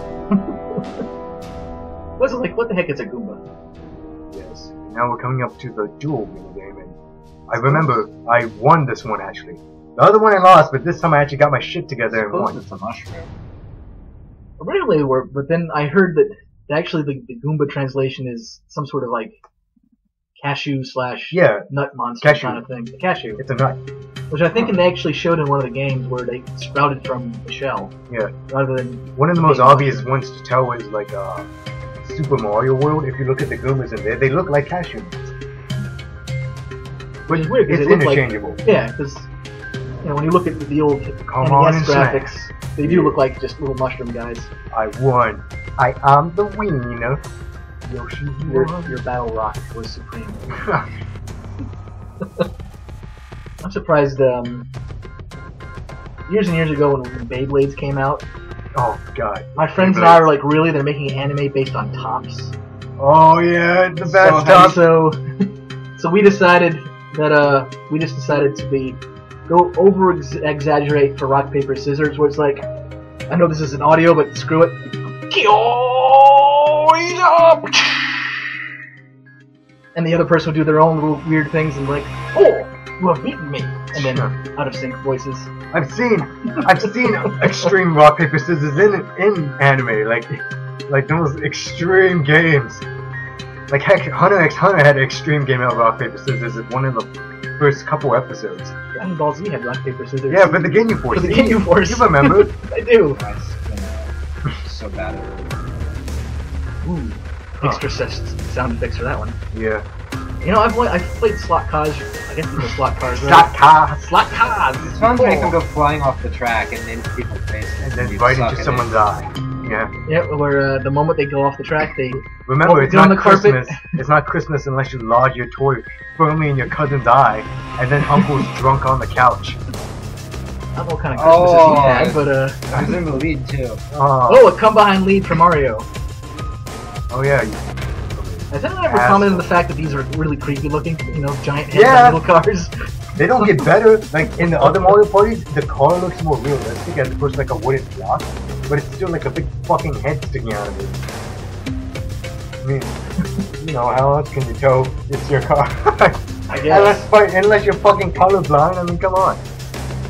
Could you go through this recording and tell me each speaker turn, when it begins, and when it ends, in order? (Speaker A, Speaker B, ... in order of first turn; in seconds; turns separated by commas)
Speaker A: 0.3-0.8, Speaker A: 2.2-3.4, Speaker B: 4.3-7.0, Speaker B: 7.5-12.6, Speaker A: 7.5-8.0, Speaker C: 12.1-13.3, Speaker A: 14.6-19.4, Speaker A: 20.4-23.4, Speaker B: 21.3-21.7, Speaker B: 22.2-22.6, Speaker B: 23.4-23.8, Speaker A: 24.3-27.9, Speaker B: 28.1-28.4, Speaker A: 28.5-30.1, Speaker B: 29.1-31.5, Speaker B: 32.0-35.3, Speaker B: 37.3-38.6, Speaker A: 37.3-39.3, Speaker A: 40.0-44.5, Speaker B: 41.3-43.2, Speaker B: 44.7-47.2, Speaker B: 47.8-49.0, Speaker A: 48.4-50.7, Speaker A: 53.6-54.7, Speaker A: 56.3-58.2, Speaker B: 58.7-60.3, Speaker A: 59.5-62.5, Speaker B: 63.0-64.8, Speaker A: 64.1-65.2, Speaker C: 64.1-64.6, Speaker A: 66.0-72.7, Speaker A: 73.3-78.4, Speaker A: 79.9-85.5, Speaker B: 83.9-84.3, Speaker B: 85.7-92.8, Speaker A: 86.6-87.7, Speaker B: 93.7-98.7, Speaker A: 98.9-103.2, Speaker B: 100.3-102.5, Speaker C: 103.2-105.6, Speaker A: 106.8-109.4, Speaker B: 109.5-109.8, Speaker A: 110.4-115.6, Speaker B: 113.1-114.1, Speaker C: 114.8-119.0, Speaker B: 117.8-119.9, Speaker A: 120.0-123.9, Speaker B: 122.4-129.6, Speaker A: 128.1-128.4, Speaker A: 130.7-132.6, Speaker C: 131.1-133.8, Speaker B: 133.9-134.5, Speaker A: 134.3-135.8, Speaker B: 137.1-139.5, Speaker A: 138.5-142.7, Speaker B: 141.7-142.2, Speaker B: 143.2-151.0, Speaker A: 143.4-143.7, Speaker B: 152.6-152.9, Speaker B: 153.6-159.4, Speaker A: 156.5-157.1